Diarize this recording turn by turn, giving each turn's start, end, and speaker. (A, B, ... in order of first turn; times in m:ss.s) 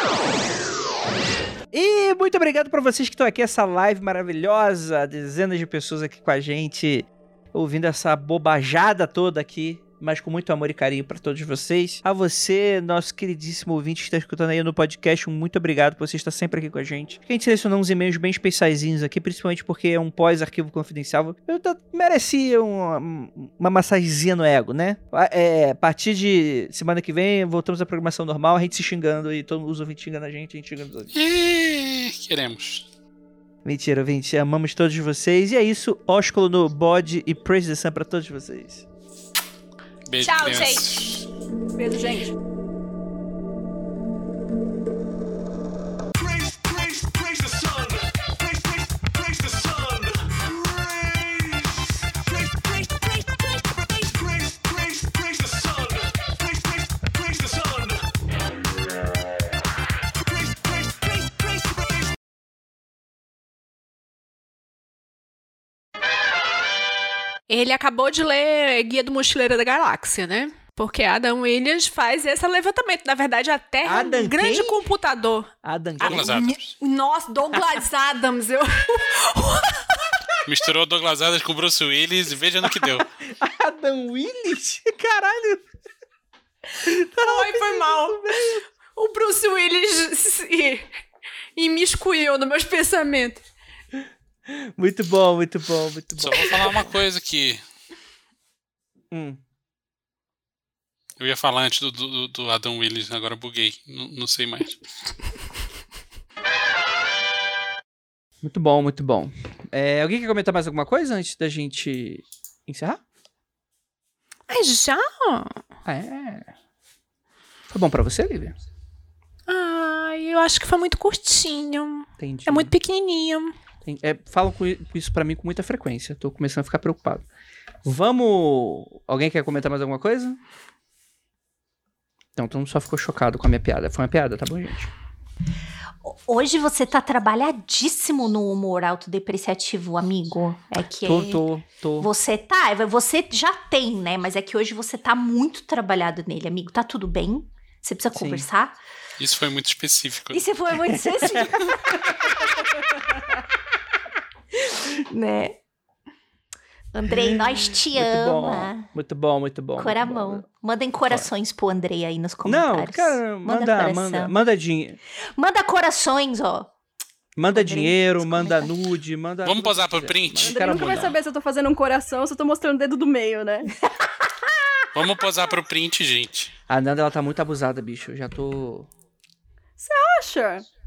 0:01.7-0:31.1 A
0:31.1-0:32.8 B
0:33.6-0:38.8 A
0:40.1-0:41.2 B
0:40.2-0:41.1 C
0:41.7-0:42.3 D
1:07.5-1:15.5 C
1:13.8-1:14.8 A
1:15.6-1:16.5 A
1:16.0-1:16.7 B
1:16.0-1:20.2 C
1:20.4-1:23.1 B
1:22.7-1:25.6 A
1:26.8-1:28.6 A
1:27.2-1:28.3 C
1:28.9-1:30.8 C
1:31.6-1:33.4 C
1:34.5-1:36.8 A
1:36.2-1:37.6 B
1:39.1-1:39.4 A
1:41.2-1:44.8 B
1:48.4-1:53.0 A
1:54.5-1:55.6 C
1:55.8-1:56.5 A
1:57.7-1:58.6 A
1:59.5-2:03.5 C
2:02.2-2:02.7 A
2:03.8-2:07.2 A
2:07.8-2:10.4 A
2:12.4-2:14.9 A
2:16.0-2:21.4 E
2:21.0-2:22.1 A
2:22.0-2:28.8 E
2:28.1-2:28.5 A
2:29.2-2:30.4 B
2:30.3-2:32.4 E
2:31.2-2:31.5 A
2:34.8-2:35.6 E
2:36.9-2:38.9 E
2:37.1-2:40.4 A
2:39.8-2:44.3 E
2:42.4-2:45.0 A
2:45.4-2:46.7 E
2:47.4-2:51.1 A
2:47.5-2:48.7 E
2:49.4-2:51.0 B
2:50.4-2:53.7 D
2:54.9-2:56.5 B
2:56.7-2:58.9 A
2:59.8-3:00.6 D